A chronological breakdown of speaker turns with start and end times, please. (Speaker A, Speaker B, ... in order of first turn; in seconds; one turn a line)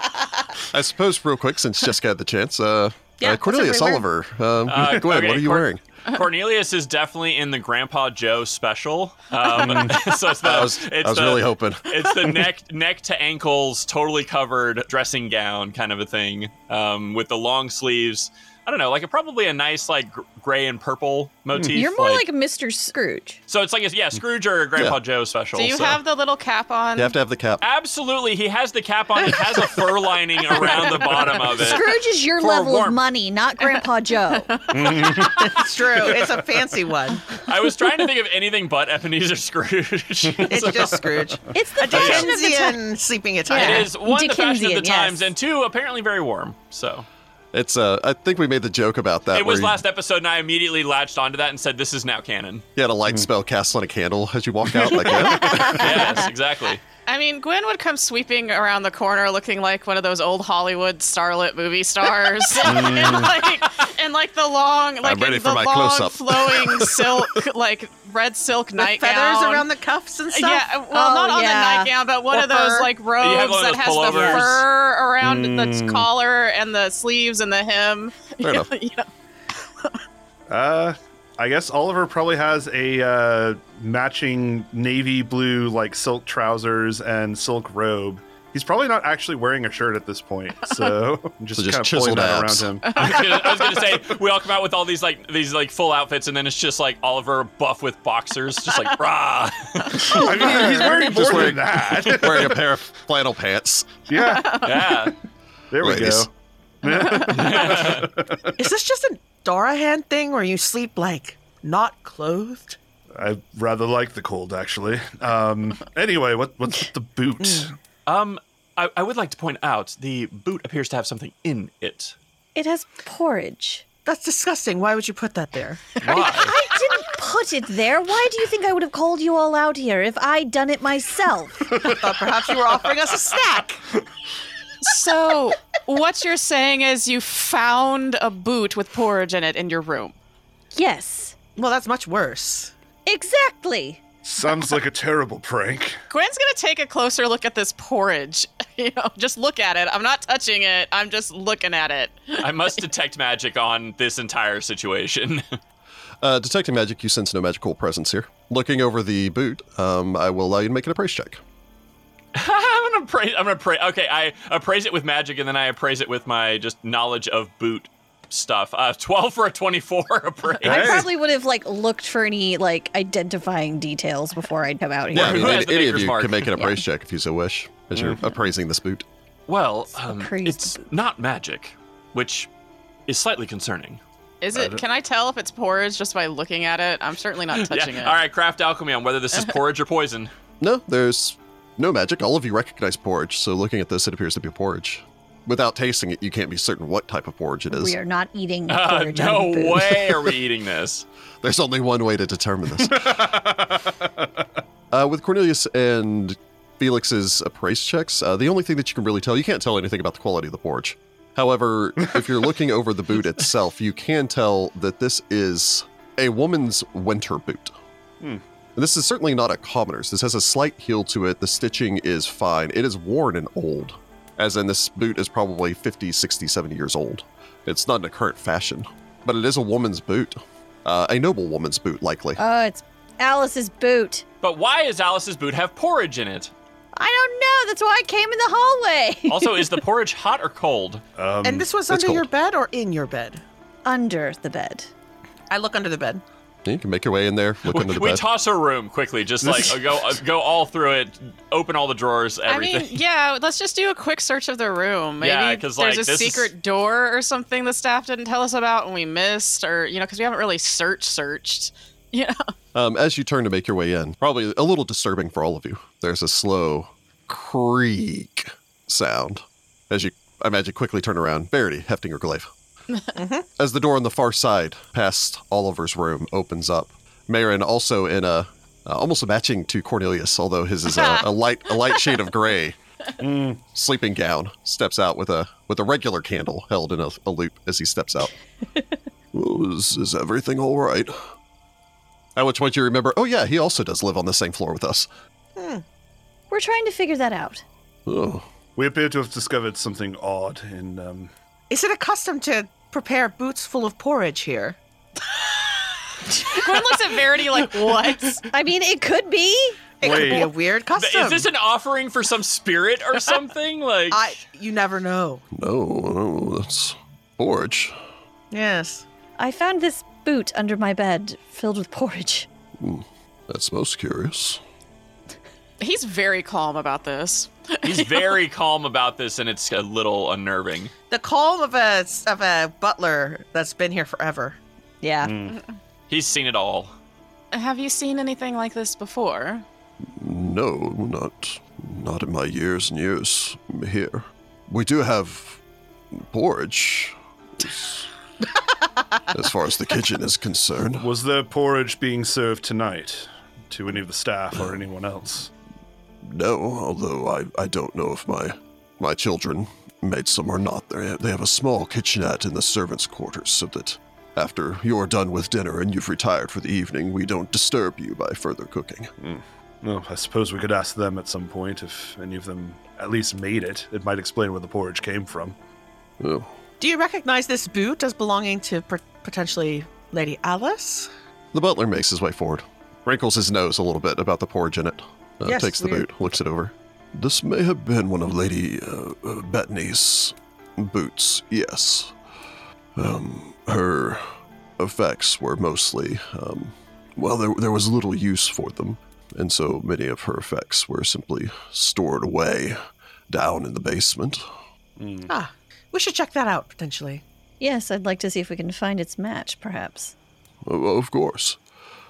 Speaker A: 0.7-5.8
Speaker B: 3.2-4.0
Speaker C: 4.7-22.2
Speaker D: 9.5-10.0
Speaker A: 10.4-12.1
Speaker E: 21.7-23.4
Speaker C: 23.5-26.0
Speaker F: 25.5-27.1
Speaker A: 26.9-27.6
Speaker C: 27.6-31.9
Speaker F: 30.5-31.5
Speaker E: 31.4-34.5
Speaker C: 32.4-33.0
Speaker F: 34.4-35.3
Speaker D: 34.7-36.2
Speaker B: 35.4-37.3
Speaker C: 37.4-41.1
Speaker B: 40.5-43.9
Speaker E: 41.5-42.8
Speaker C: 41.9-42.3
Speaker E: 43.5-45.3
Speaker C: 43.5-47.0
Speaker A: 47.5-49.8
Speaker C: 49.3-52.6
Speaker A: 52.8-56.0
Speaker C: 55.3-56.8
Speaker F: 57.1-69.7
Speaker D: 62.6-63.3
Speaker C: 62.7-63.3
Speaker A: 65.0-67.2
Speaker B: 68.8-70.7
Speaker F: 70.3-80.0
Speaker E: 70.9-71.9
Speaker B: 72.3-72.9
Speaker C: 73.2-74.6
Speaker B: 74.1-74.4
Speaker D: 75.2-76.1
Speaker A: 78.4-78.7
Speaker D: 80.5-93.2
Speaker A: 91.5-92.7
Speaker F: 92.9-93.7
Speaker C: 93.0-100.6
Speaker D: 99.9-102.6
Speaker A: 100.5-103.9
Speaker D: 104.0-105.1
Speaker F: 104.2-104.7
Speaker C: 104.5-105.1
Speaker D: 105.7-106.3
Speaker A: 105.8-106.3
Speaker D: 106.8-108.5
Speaker F: 107.0-107.3
Speaker C: 107.1-108.1
Speaker B: 108.6-112.8
Speaker D: 113.1-117.7
Speaker C: 118.0-122.1
Speaker E: 122.5-123.8
Speaker B: 124.0-125.8
Speaker C: 126.0-126.5
Speaker E: 126.1-131.8
Speaker B: 131.8-133.8
Speaker F: 134.8-140.2
Speaker E: 140.7-141.3
Speaker B: 141.6-142.7
Speaker E: 143.1-144.0
Speaker D: 144.2-146.0
Speaker F: 146.1-152.5
Speaker C: 152.4-155.6
Speaker A: 156.2-161.4
Speaker C: 162.3-171.1
Speaker D: 170.6-171.1
Speaker E: 170.6-175.4
Speaker C: 175.1-176.7
Speaker A: 175.1-179.1
Speaker D: 177.9-178.2
Speaker C: 179.5-182.5
Speaker E: 179.9-180.8
Speaker C: 183.1-184.0
Speaker F: 184.4-188.2
Speaker D: 184.5-184.8
Speaker C: 187.5-190.3
Speaker A: 190.6-197.9
Speaker E: 197.7-200.3
Speaker C: 198.7-201.0
Speaker A: 201.4-203.4
Speaker D: 202.8-204.2
Speaker A: 204.9-217.7
Speaker A: 218.8-232.4
Speaker E: 232.4-234.2
Speaker C: 234.4-236.5
Speaker E: 236.9-239.8
Speaker C: 239.3-241.0
Speaker D: 241.2-241.8
Speaker B: 241.4-243.4
Speaker A: 241.9-242.2
Speaker E: 243.8-244.9
Speaker B: 245.5-246.2
Speaker A: 246.7-248.2
Speaker C: 247.7-253.0
Speaker D: 249.4-249.8
Speaker F: 252.4-262.4
Speaker C: 255.2-256.5
Speaker A: 262.7-272.5
Speaker B: 273.1-273.4
Speaker A: 273.6-282.8
Speaker F: 281.0-281.2
Speaker D: 283.2-283.6
Speaker A: 283.7-288.3
Speaker A: 289.3-291.2
Speaker A: 292.4-295.1
Speaker B: 295.6-295.8
Speaker E: 296.5-297.6
Speaker A: 298.1-298.4
Speaker D: 298.8-301.3
Speaker B: 301.7-304.8
Speaker F: 306.4-308.4
Speaker E: 308.5-309.8
Speaker B: 310.0-311.5
Speaker D: 310.0-310.5
Speaker C: 310.9-314.4
Speaker B: 314.1-315.4
Speaker A: 315.5-317.9
Speaker B: 318.5-319.0
Speaker E: 319.4-322.5
Speaker A: 322.8-324.6
Speaker F: 325.8-328.2
Speaker C: 327.8-330.9
Speaker B: 331.1-334.6
Speaker E: 335.0-335.4
Speaker D: 335.2-335.6
Speaker C: 336.1-336.9
Speaker F: 337.5-339.6
Speaker A: 340.1-345.6
Speaker A: 346.1-347.9
Speaker A: 349.3-351.1
Speaker D: 351.0-355.5
Speaker A: 356.2-369.1
Speaker D: 369.2-375.6
Speaker A: 376.2-376.5
Speaker B: 376.8-381.1
Speaker A: 381.5-392.1
Speaker B: 385.4-386.1
Speaker A: 392.9-402.8
Speaker A: 403.3-404.4
Speaker D: 405.0-405.3
Speaker B: 405.3-407.2
Speaker E: 407.6-410.1
Speaker A: 410.6-411.6